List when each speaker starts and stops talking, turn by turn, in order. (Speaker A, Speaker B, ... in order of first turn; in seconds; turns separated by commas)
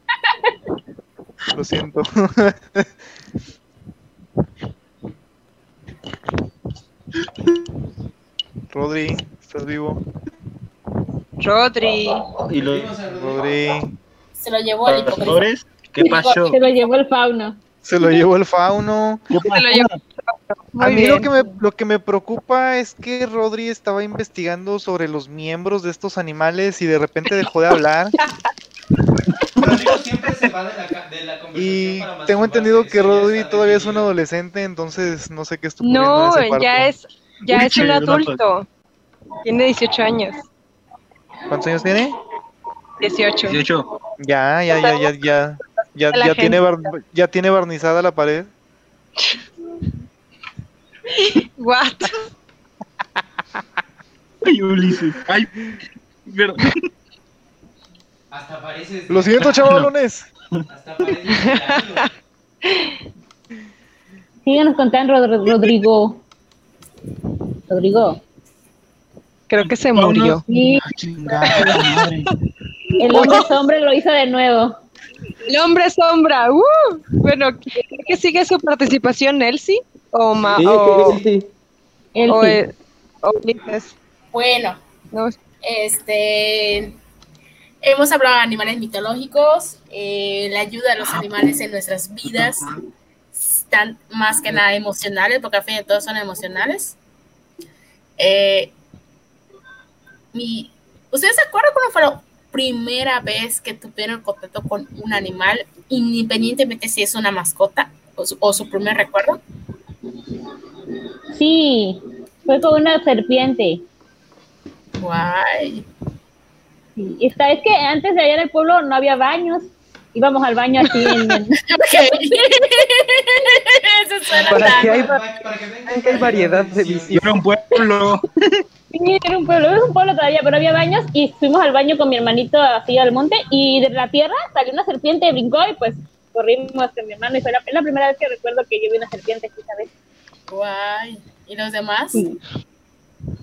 Speaker A: 1.5-2.9, Speaker A: 8.7-10.0, Speaker B: 11.4-12.3, Speaker C: 12.5-13.0, Speaker D: 12.5-13.6, Speaker A: 13.1-13.9, Speaker E: 14.4-15.4, Speaker C: 14.8-16.6, Speaker F: 16.0-17.6, Speaker A: 17.8-19.2, Speaker C: 19.3-20.0, Speaker B: 19.4-21.3, Speaker A: 20.8-28.1, Speaker D: 29.6-34.1, Speaker C: 29.6-29.9, Speaker A: 31.5-36.9, Speaker B: 35.8-38.7, Speaker C: 37.4-38.4, Speaker B: 39.4-40.5, Speaker A: 41.5-42.2, Speaker B: 43.0-43.6, Speaker C: 43.5-43.9, Speaker A: 44.2-48.5, Speaker B: 44.7-45.1, Speaker B: 46.1-46.6, Speaker B: 51.1-52.3, Speaker C: 54.4-55.7, Speaker C: 56.2-56.8, Speaker D: 58.3-59.7, Speaker A: 59.1-60.3, Speaker D: 60.7-62.1, Speaker B: 61.3-62.0, Speaker B: 62.7-62.9, Speaker F: 64.5-66.2, Speaker F: 67.7-68.2, Speaker B: 69.5-70.4, Speaker C: 69.6-72.3, Speaker F: 70.5-70.8, Speaker B: 71.4-72.0, Speaker F: 73.0-74.8, Speaker B: 73.1-73.5, Speaker A: 73.1-73.4, Speaker B: 75.4-81.2, Speaker D: 80.5-81.2, Speaker G: 80.6-81.5, Speaker F: 82.1-82.6, Speaker B: 82.3-83.9, Speaker E: 84.3-84.8, Speaker B: 85.1-85.4, Speaker E: 85.6-87.0, Speaker E: 87.8-92.7, Speaker C: 92.3-92.7, Speaker E: 93.3-97.0, Speaker E: 98.2-98.7, Speaker E: 100.3-109.4, Speaker F: 111.3-113.8, Speaker E: 115.0-115.8, Speaker F: 117.0-122.9, Speaker E: 121.1-125.0, Speaker G: 124.5-125.2, Speaker D: 124.5-127.3, Speaker G: 125.9-127.4, Speaker C: 127.1-128.6, Speaker F: 128.9-139.9, Speaker E: 140.5-142.2